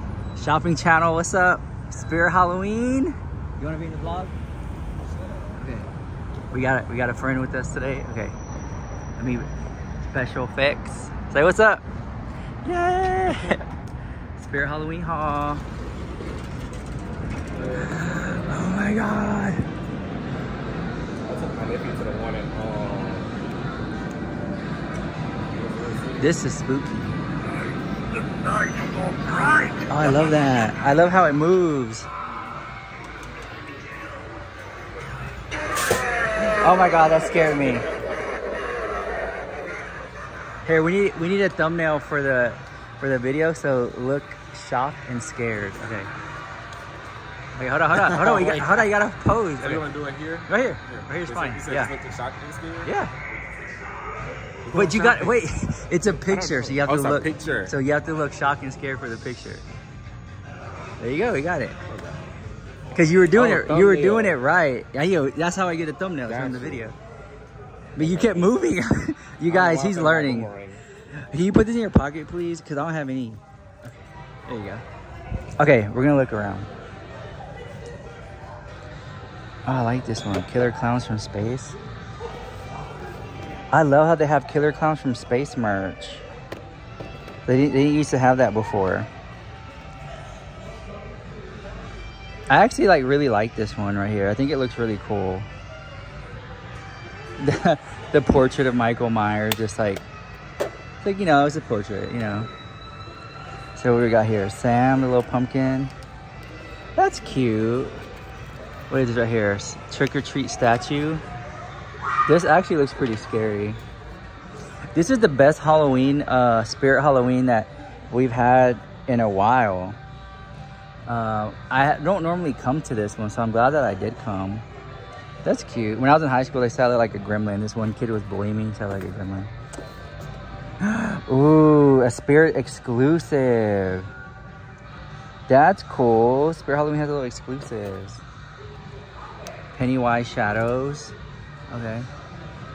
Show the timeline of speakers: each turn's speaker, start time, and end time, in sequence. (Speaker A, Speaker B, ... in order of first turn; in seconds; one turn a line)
Speaker A: 0.3-4.3
Speaker A: 5.6-5.9
Speaker A: 6.5-8.4
Speaker A: 9.2-9.5
Speaker A: 10.1-11.8
Speaker A: 12.6-13.6
Speaker A: 14.4-15.6
Speaker B: 17.7-18.0
Speaker A: 17.8-19.7
Speaker B: 21.2-23.3
Speaker B: 25.5-26.4
Speaker A: 26.2-27.2
Speaker A: 29.3-32.1
Speaker A: 36.5-37.9
Speaker A: 40.6-46.1
Speaker A: 47.5-49.9
Speaker B: 47.9-48.9
Speaker B: 49.6-52.9
Speaker A: 50.5-51.9
Speaker A: 52.8-53.1
Speaker B: 54.6-55.4
Speaker A: 54.7-59.6
Speaker B: 56.1-57.8
Speaker A: 61.0-61.8
Speaker B: 61.8-62.2
Speaker A: 62.9-67.0
Speaker B: 62.9-64.4
Speaker B: 66.2-66.9
Speaker A: 68.0-70.5
Speaker B: 68.0-68.7
Speaker B: 69.4-70.8
Speaker A: 71.3-74.8
Speaker A: 75.6-76.7
Speaker A: 79.7-81.8
Speaker A: 83.7-86.2
Speaker A: 87.5-89.1
Speaker A: 92.5-95.5
Speaker A: 97.4-100.0
Speaker A: 101.0-102.5
Speaker A: 103.8-105.9
Speaker A: 107.0-108.0
Speaker A: 108.9-111.2
Speaker A: 112.3-113.8
Speaker A: 114.9-120.0
Speaker A: 121.0-124.7
Speaker A: 125.4-129.5
Speaker A: 130.8-134.1
Speaker A: 135.5-138.2
Speaker A: 139.7-141.1
Speaker A: 141.7-142.1